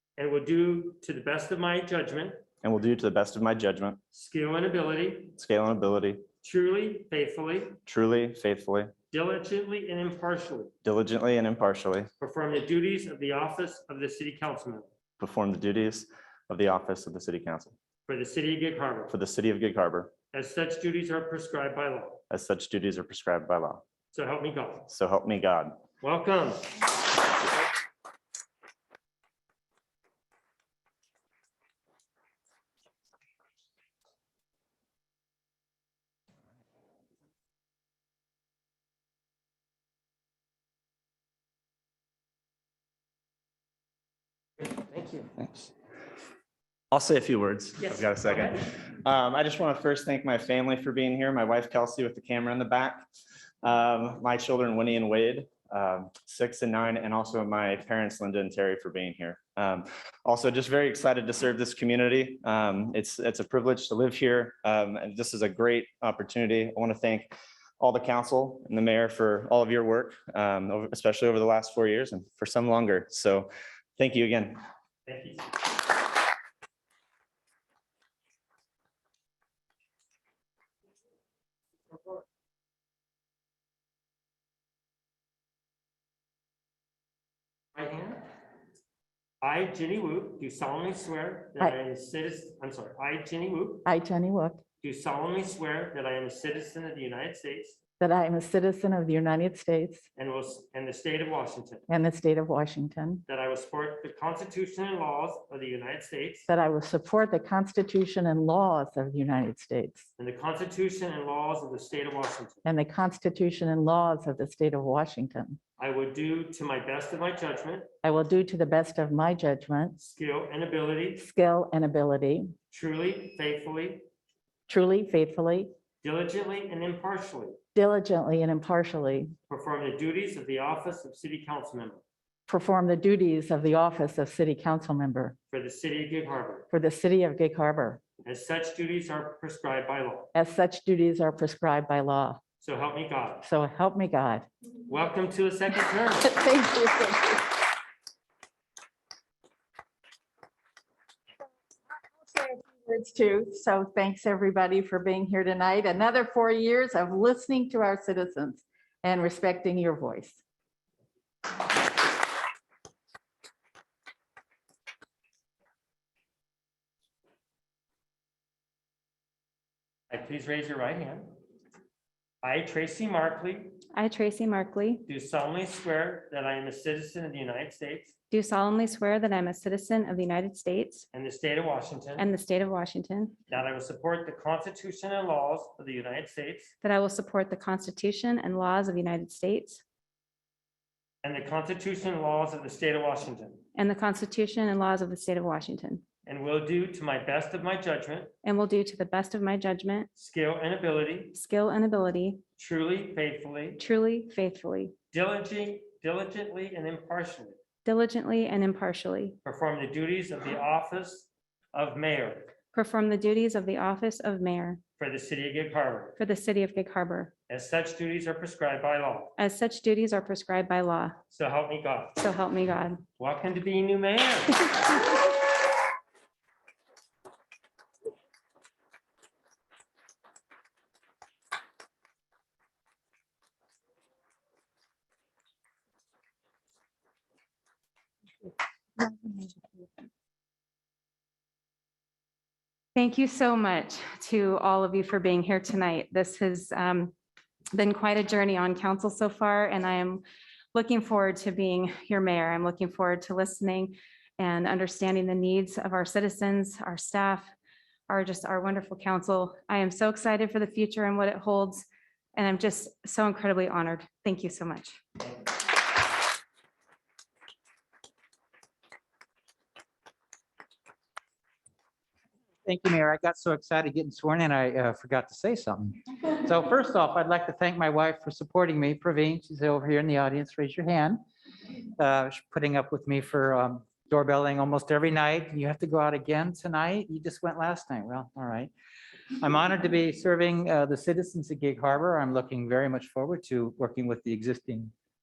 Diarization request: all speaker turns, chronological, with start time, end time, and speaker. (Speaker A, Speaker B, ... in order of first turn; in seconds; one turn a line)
Speaker A: 0.2-2.4
Speaker B: 2.6-4.0
Speaker A: 4.1-5.4
Speaker B: 5.4-6.3
Speaker A: 6.4-7.8
Speaker B: 7.9-8.9
Speaker A: 9.1-10.7
Speaker B: 10.8-12.1
Speaker A: 12.2-14.9
Speaker B: 15.2-17.8
Speaker A: 18.1-19.1
Speaker B: 19.1-20.1
Speaker A: 20.3-22.2
Speaker B: 22.3-23.8
Speaker A: 24.1-24.9
Speaker B: 24.9-25.8
Speaker A: 26.0-26.9
Speaker B: 45.4-45.7
Speaker B: 46.9-53.0
Speaker A: 47.8-48.6
Speaker B: 53.6-74.6
Speaker A: 75.1-75.6
Speaker A: 87.8-88.2
Speaker A: 89.4-93.8
Speaker C: 93.8-94.6
Speaker A: 94.8-97.8
Speaker C: 98.0-100.0
Speaker A: 100.2-101.9
Speaker C: 101.9-103.2
Speaker A: 103.3-106.5
Speaker C: 106.5-110.1
Speaker A: 110.2-112.6
Speaker C: 112.7-115.6
Speaker A: 115.8-117.9
Speaker C: 118.0-120.1
Speaker A: 120.0-121.2
Speaker C: 121.2-122.5
Speaker A: 122.7-124.1
Speaker C: 124.7-125.7
Speaker A: 126.0-127.6
Speaker C: 127.8-129.3
Speaker A: 129.5-132.0
Speaker C: 132.5-135.3
Speaker A: 135.5-136.7
Speaker C: 136.7-138.0
Speaker A: 138.2-140.3
Speaker C: 140.3-142.4
Speaker A: 142.6-143.4
Speaker C: 143.4-144.5
Speaker A: 144.9-146.3
Speaker C: 146.2-147.5
Speaker C: 152.2-160.4
Speaker A: 170.1-171.4
Speaker A: 172.4-173.8
Speaker D: 173.9-175.1
Speaker A: 175.1-178.1
Speaker D: 178.3-181.1
Speaker A: 181.1-182.3
Speaker D: 182.2-183.4
Speaker A: 183.5-186.7
Speaker D: 186.8-189.8
Speaker A: 191.2-193.7
Speaker D: 193.8-196.0
Speaker A: 196.3-198.3
Speaker D: 198.4-200.1
Speaker A: 200.2-201.3
Speaker D: 201.3-202.4
Speaker A: 202.6-203.8
Speaker D: 203.8-204.9
Speaker A: 205.1-207.6
Speaker D: 207.8-209.4
Speaker A: 209.4-212.5
Speaker D: 212.7-214.8
Speaker A: 215.0-216.2
Speaker D: 216.2-217.3
Speaker A: 217.5-219.3
Speaker D: 219.4-221.2
Speaker A: 221.3-222.2
Speaker D: 222.2-223.0
Speaker A: 223.2-224.7
Speaker D: 242.9-247.1
Speaker D: 247.7-250.2
Speaker D: 250.7-257.5
Speaker D: 258.1-265.0
Speaker E: 272.6-281.2
Speaker E: 282.0-288.7
Speaker E: 289.4-294.9